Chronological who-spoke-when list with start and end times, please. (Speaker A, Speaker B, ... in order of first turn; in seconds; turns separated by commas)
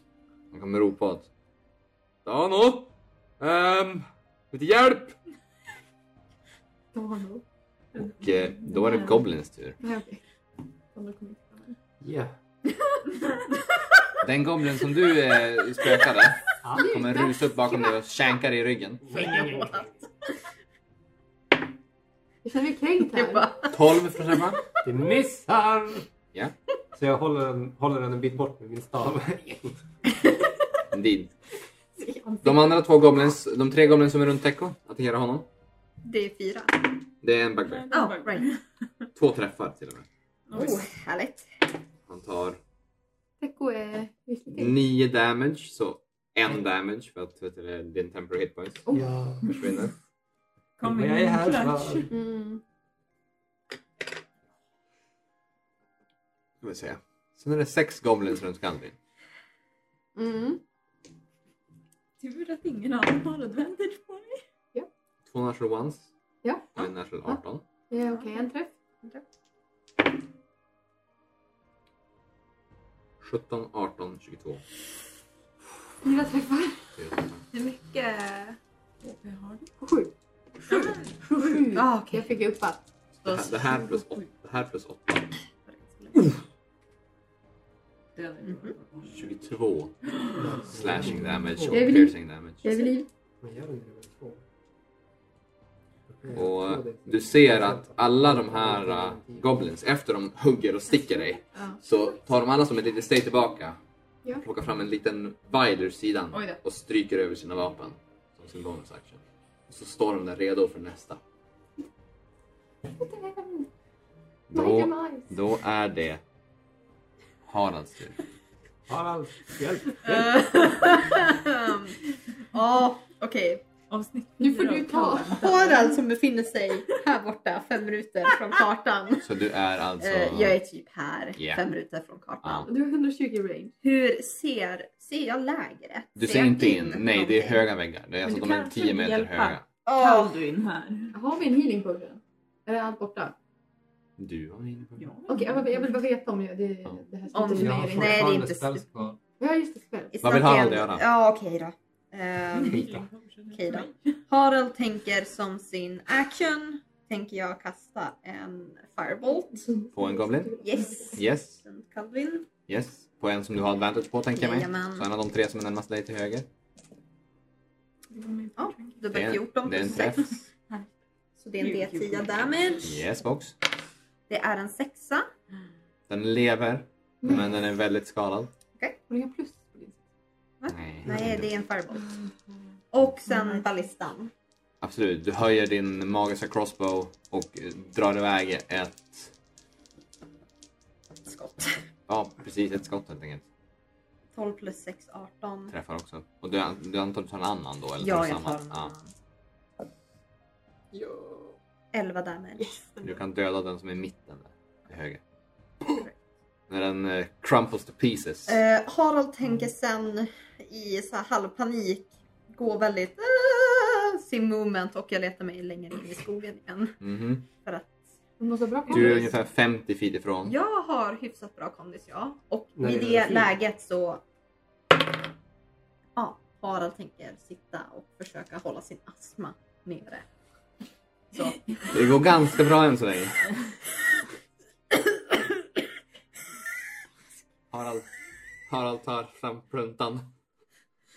Speaker A: 0.5-1.3, Speaker A: 2.2-5.2, Speaker B: 6.9-7.4, Speaker C: 8.0-9.2, Speaker A: 8.0-9.8, Speaker B: 9.8-10.2, Speaker B: 10.9-11.8, Speaker D: 12.0-12.4, Speaker A: 14.2-19.3, Speaker D: 16.6-17.0, Speaker B: 16.7-18.0, Speaker D: 19.0-19.9, Speaker E: 19.1-19.9, Speaker B: 22.4-23.5, Speaker E: 23.0-23.8, Speaker A: 23.7-24.6, Speaker D: 24.8-26.1, Speaker D: 26.9-29.8, Speaker A: 30.9-31.3, Speaker B: 32.0-32.8, Speaker A: 32.4-35.5, Speaker E: 36.0-37.0, Speaker A: 37.2-37.9, Speaker C: 37.7-38.6, Speaker E: 37.9-38.5, Speaker A: 39.2-40.1, Speaker C: 40.5-40.9, Speaker E: 40.5-41.5, Speaker A: 42.1-42.6, Speaker B: 43.4-44.8, Speaker A: 44.5-48.9, Speaker D: 48.9-49.5, Speaker A: 49.4-49.9, Speaker C: 50.8-52.1, Speaker D: 50.8-52.1, Speaker B: 52.1-52.6, Speaker A: 56.6-59.0, Speaker B: 60.1-60.6, Speaker C: 62.2-64.4, Speaker A: 65.3-66.1, Speaker B: 66.4-68.7, Speaker A: 66.8-67.6, Speaker E: 68.0-68.5, Speaker A: 73.2-74.6, Speaker B: 76.0-76.8, Speaker A: 77.0-77.4, Speaker E: 77.5-78.6, Speaker C: 79.0-79.7, Speaker B: 79.8-80.1, Speaker C: 80.7-81.7, Speaker B: 80.7-82.8, Speaker E: 81.7-82.4, Speaker A: 83.2-85.3, Speaker C: 83.2-84.3, Speaker E: 85.7-86.3, Speaker C: 88.2-89.2, Speaker E: 88.4-88.8, Speaker A: 89.1-90.0, Speaker C: 90.1-90.4, Speaker D: 90.3-92.0, Speaker A: 90.6-92.7, Speaker B: 91.7-93.1, Speaker D: 93.4-94.4, Speaker D: 96.1-99.5, Speaker A: 96.3-103.8, Speaker A: 104.4-111.2, Speaker C: 106.3-106.6, Speaker B: 113.0-113.7, Speaker A: 114.5-116.2, Speaker B: 114.5-115.3, Speaker A: 117.5-118.2, Speaker D: 118.9-120.3, Speaker E: 120.0-123.6, Speaker C: 123.9-125.9, Speaker B: 124.4-125.7, Speaker E: 125.4-129.3, Speaker A: 129.2-130.6, Speaker E: 130.0-132.7, Speaker A: 131.4-131.6, Speaker A: 132.4-132.7, Speaker B: 132.7-133.7, Speaker E: 133.8-137.6, Speaker A: 136.2-139.6, Speaker C: 138.2-141.2, Speaker E: 139.9-140.4, Speaker B: 141.1-143.4, Speaker A: 144.2-145.1, Speaker C: 145.0-145.9, Speaker B: 145.3-148.4, Speaker E: 147.3-148.9, Speaker D: 147.5-149.2, Speaker B: 149.4-150.2, Speaker E: 150.1-152.9, Speaker A: 150.2-151.0, Speaker C: 152.5-154.2, Speaker D: 152.7-153.1, Speaker E: 153.5-159.7, Speaker B: 159.6-161.2, Speaker A: 159.9-160.6, Speaker E: 160.6-162.5, Speaker A: 161.2-161.6, Speaker A: 162.7-166.5, Speaker E: 164.3-165.1, Speaker C: 168.1-169.1, Speaker E: 168.6-170.4, Speaker A: 169.1-170.3, Speaker E: 171.4-173.0, Speaker C: 171.6-172.9, Speaker A: 172.8-173.6, Speaker E: 174.3-175.3, Speaker A: 176.1-178.5, Speaker B: 177.2-177.5, Speaker B: 179.1-180.0, Speaker E: 180.6-182.1, Speaker A: 180.7-181.5, Speaker C: 182.0-182.3, Speaker E: 182.9-184.3, Speaker A: 184.8-189.3, Speaker E: 191.3-191.8, Speaker A: 192.1-193.4, Speaker E: 194.3-195.7, Speaker A: 195.7-198.9, Speaker E: 198.0-199.1, Speaker B: 200.9-201.6, Speaker E: 201.9-202.8, Speaker B: 202.6-203.2, Speaker A: 203.0-205.2, Speaker A: 206.7-208.6, Speaker E: 208.5-217.0, Speaker A: 217.0-217.4, Speaker E: 217.6-218.1, Speaker B: 218.4-219.3, Speaker A: 218.9-220.6, Speaker E: 218.9-219.3, Speaker E: 220.4-224.2, Speaker D: 222.8-223.6, Speaker E: 226.2-230.3, Speaker E: 231.3-231.7, Speaker A: 231.9-233.5, Speaker A: 237.7-238.1, Speaker A: 238.7-240.3